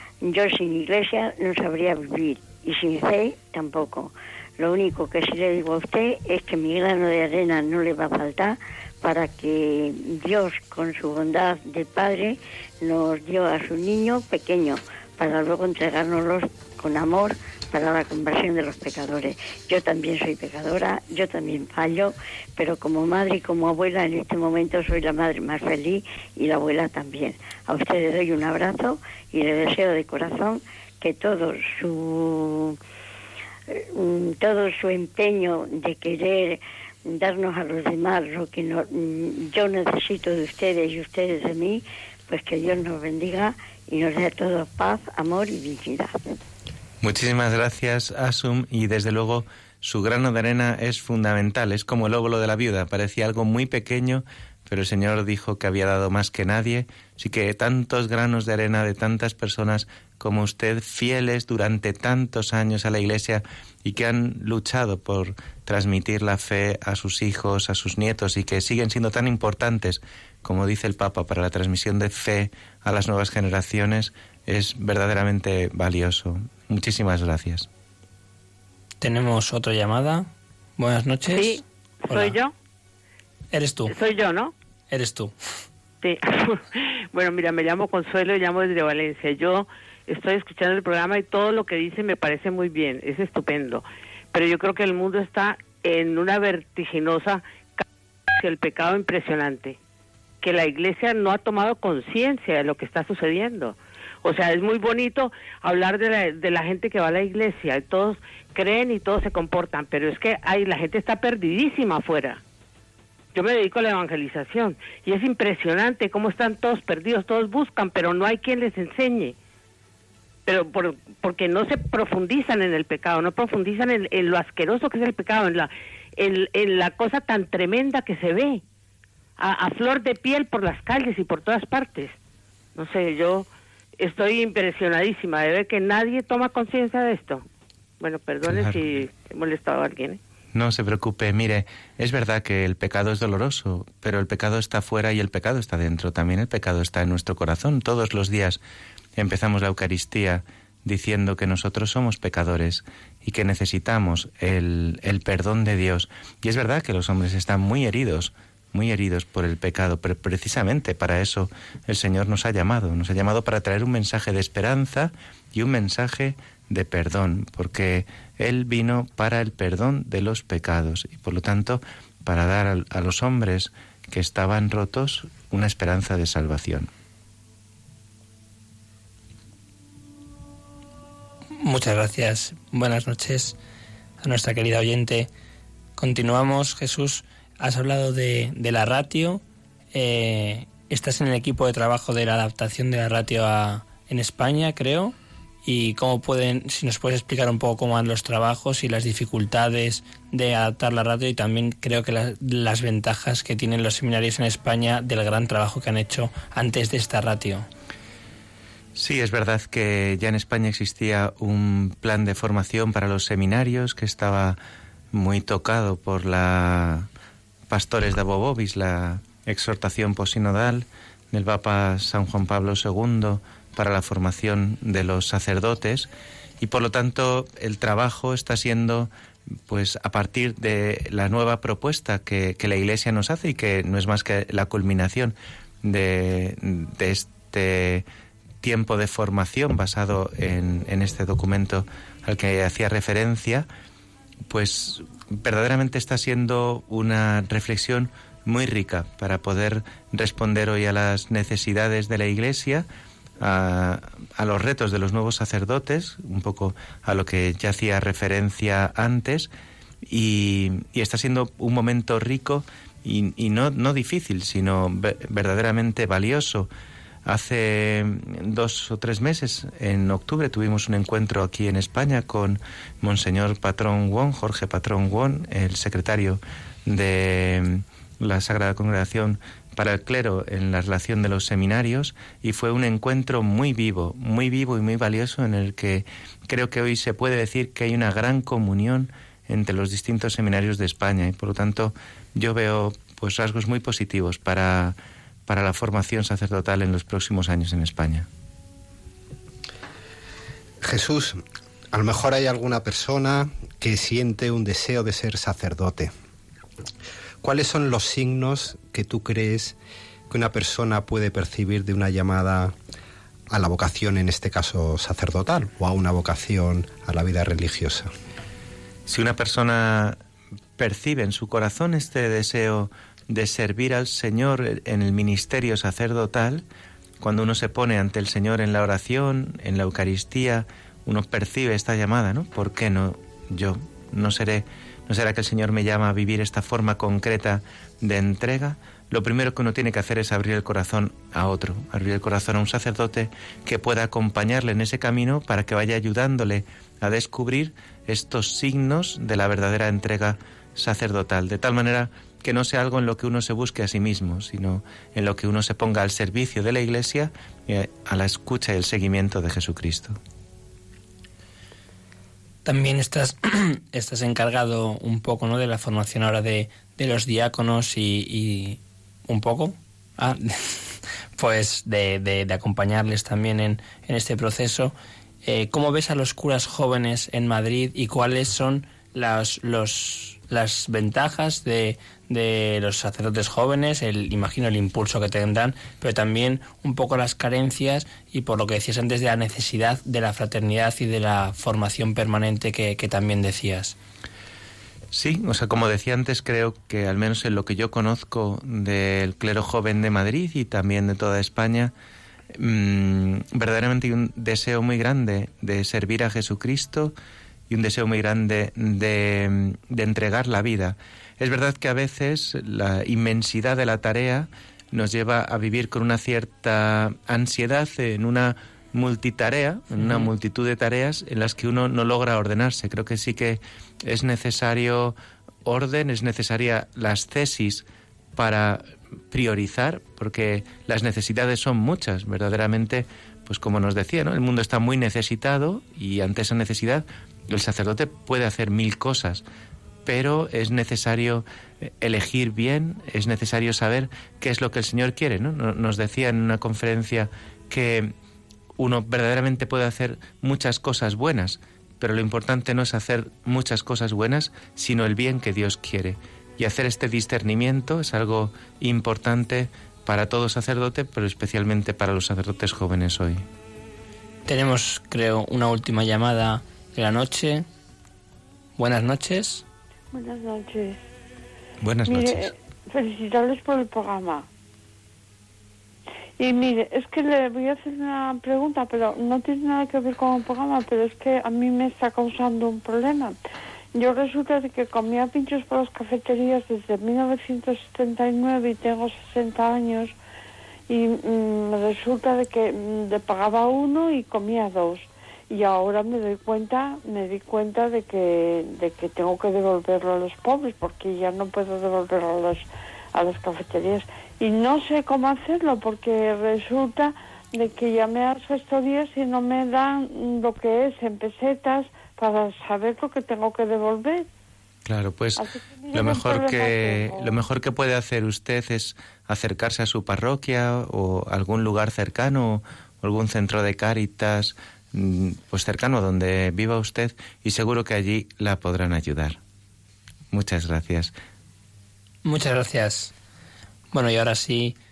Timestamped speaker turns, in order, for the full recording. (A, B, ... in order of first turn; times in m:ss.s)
0:00.2-0:32.8 A
0:33.7-0:46.1 A
0:47.0-1:17.7 B
1:19.0-1:22.4 C
1:21.3-1:22.5 D
1:23.5-1:23.9 C
1:23.9-1:24.5 D
1:24.9-1:25.3 C
1:26.0-1:37.8 D
1:38.4-1:39.8 D
1:40.4-1:52.4 D
1:53.3-1:59.3 D
2:00.4-2:08.6 D
2:09.4-2:12.1 D
2:12.7-2:13.5 D
2:14.0-2:17.4 D
2:18.0-2:20.2 D
2:18.5-2:18.8 B
2:20.5-2:28.6 B
2:29.2-2:56.9 B
3:01.6-3:03.6 C
3:04.2-3:05.3 C
3:06.0-3:09.4 C
3:09.9-3:27.7 C
3:29.0-3:34.6 B
3:35.1-3:37.1 B
3:37.7-3:46.1 B
3:46.6-3:49.1 B
3:49.7-3:58.0 B
3:58.6-4:03.7 B
4:04.5-4:12.8 B
4:13.4-4:19.5 B
4:20.0-4:26.7 B
4:27.2-4:55.0 B
4:55.5-4:58.3 B
5:00.8-5:01.4 E
5:01.9-5:06.1 E
5:07.4-5:09.8 E
5:10.3-5:12.7 E
5:13.5-5:18.1 E
5:19.1-5:20.2 B
5:20.8-5:26.6 B
5:27.2-6:00.2 B
6:02.6-6:14.9 C
6:15.4-6:34.0 C
6:35.1-6:41.9 B
6:42.6-6:47.1 B
6:47.7-7:07.8 B
7:08.4-7:19.4 B
7:20.0-7:28.1 B
7:28.8-7:43.4 B
7:44.4-7:47.6 C
7:48.8-7:49.6 C
7:50.1-7:51.0 F
7:51.8-7:52.5 B
7:52.1-7:54.4 F
7:56.4-8:03.4 F
8:03.9-8:10.1 F
8:10.9-8:34.3 F
8:34.8-8:49.4 B
8:35.4-8:37.5 F
8:50.3-8:51.1 B
8:52.2-8:53.1 C
8:53.9-8:54.8 C